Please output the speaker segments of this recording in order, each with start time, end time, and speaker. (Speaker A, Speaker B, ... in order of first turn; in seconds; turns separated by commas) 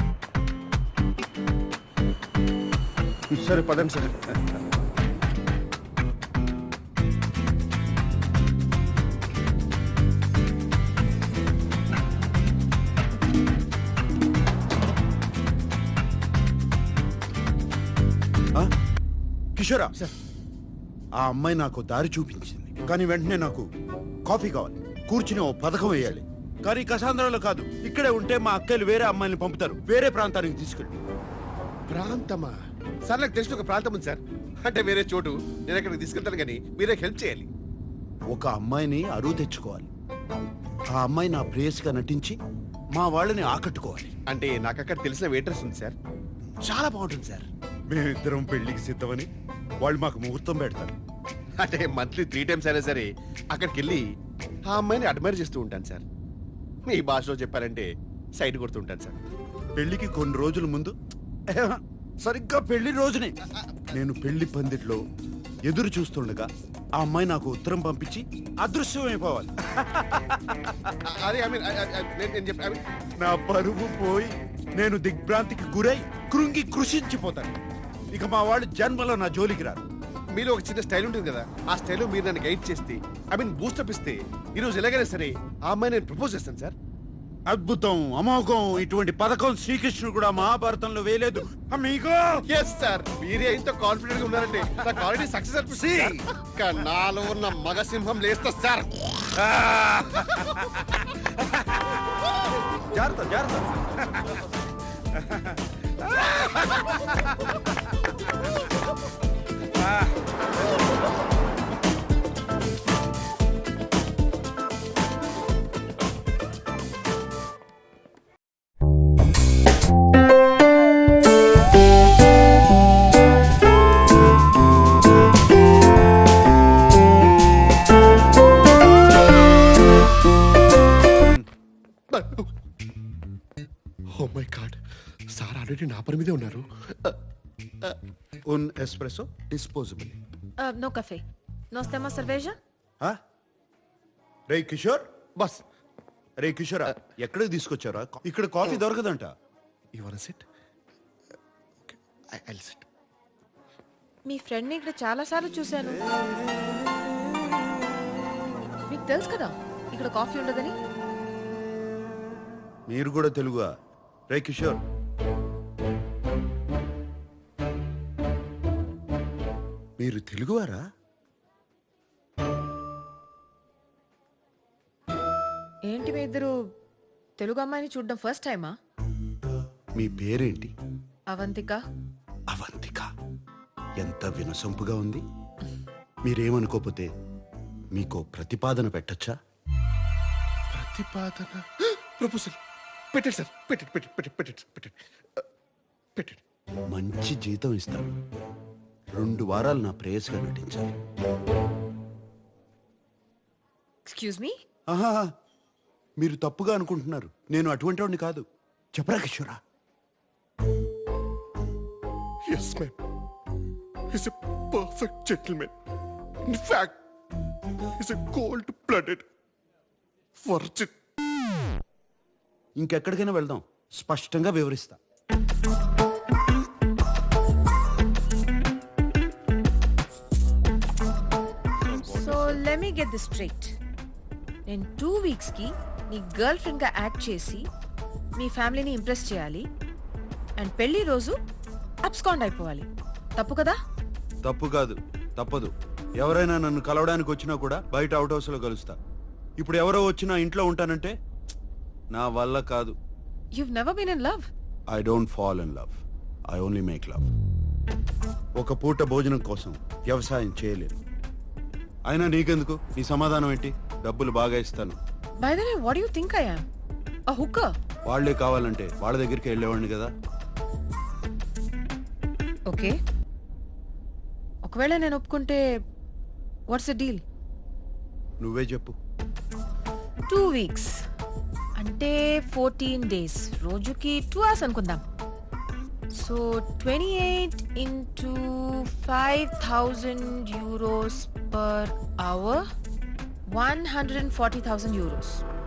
Speaker A: 3.3-4.6, Speaker A: 19.6-19.9, Speaker A: 21.2-23.7, Speaker A: 24.3-31.0, Speaker B: 31.9-32.5, Speaker B: 33.0-37.5, Speaker A: 38.3-39.9, Speaker A: 41.0-42.4, Speaker A: 43.0-44.1, Speaker B: 44.3-46.0, Speaker B: 46.6-47.5, Speaker A: 47.9-49.3, Speaker A: 49.8-51.0, Speaker B: 51.6-54.0, Speaker B: 54.7-56.0, Speaker B: 56.9-59.2, Speaker A: 59.8-61.0, Speaker A: 61.5-63.4, Speaker A: 63.9-65.0, Speaker A: 65.7-70.9, Speaker B: 71.0-72.8, Speaker A: 73.2-77.5, Speaker A: 78.1-79.8, Speaker B: 80.3-86.8, Speaker A: 87.5-92.4, Speaker B: 92.5-99.3, Speaker A: 94.9-96.3, Speaker A: 99.4-101.9, Speaker A: 102.8-108.1, Speaker A: 109.7-110.3, Speaker B: 132.1-132.5, Speaker B: 134.1-134.8, Speaker B: 135.3-137.2, Speaker A: 138.5-140.2, Speaker C: 140.6-142.6, Speaker A: 144.5-145.1, Speaker A: 146.4-149.3, Speaker B: 149.9-150.4, Speaker B: 151.8-152.9, Speaker C: 154.3-156.0, Speaker C: 158.9-160.7, Speaker A: 162.9-163.7, Speaker A: 164.3-164.8, Speaker A: 170.0-170.8, Speaker C: 175.9-176.5, Speaker C: 177.4-178.8, Speaker A: 180.0-180.7, Speaker C: 181.3-181.8, Speaker A: 182.5-183.1, Speaker A: 184.0-185.2, Speaker A: 186.3-187.1, Speaker A: 187.9-189.3, Speaker B: 190.7-192.6, Speaker B: 193.1-195.0, Speaker B: 196.2-196.4, Speaker A: 196.9-198.2, Speaker A: 199.2-200.9, Speaker C: 204.1-204.6, Speaker A: 204.9-205.3, Speaker A: 206.2-209.6, Speaker B: 212.5-212.9, Speaker B: 214.1-215.7, Speaker B: 216.5-216.9, Speaker B: 218.0-219.2, Speaker B: 220.4-220.9, Speaker A: 222.8-225.0, Speaker B: 231.8-232.6, Speaker C: 232.1-233.8, Speaker C: 234.7-237.7, Speaker C: 238.4-239.7, Speaker C: 240.6-241.4, Speaker C: 242.1-243.8, Speaker A: 244.4-249.0, Speaker A: 249.6-251.2, Speaker A: 252.1-253.0, Speaker C: 253.5-254.5, Speaker A: 254.9-257.3, Speaker A: 258.6-261.0, Speaker A: 262.1-265.0, Speaker C: 265.4-266.6, Speaker C: 267.3-267.7, Speaker A: 268.1-270.1, Speaker C: 272.7-273.0, Speaker C: 274.6-275.6, Speaker C: 276.7-277.2, Speaker A: 278.4-279.0, Speaker C: 280.3-281.0, Speaker C: 281.8-285.0, Speaker C: 286.1-292.6, Speaker C: 293.5-295.4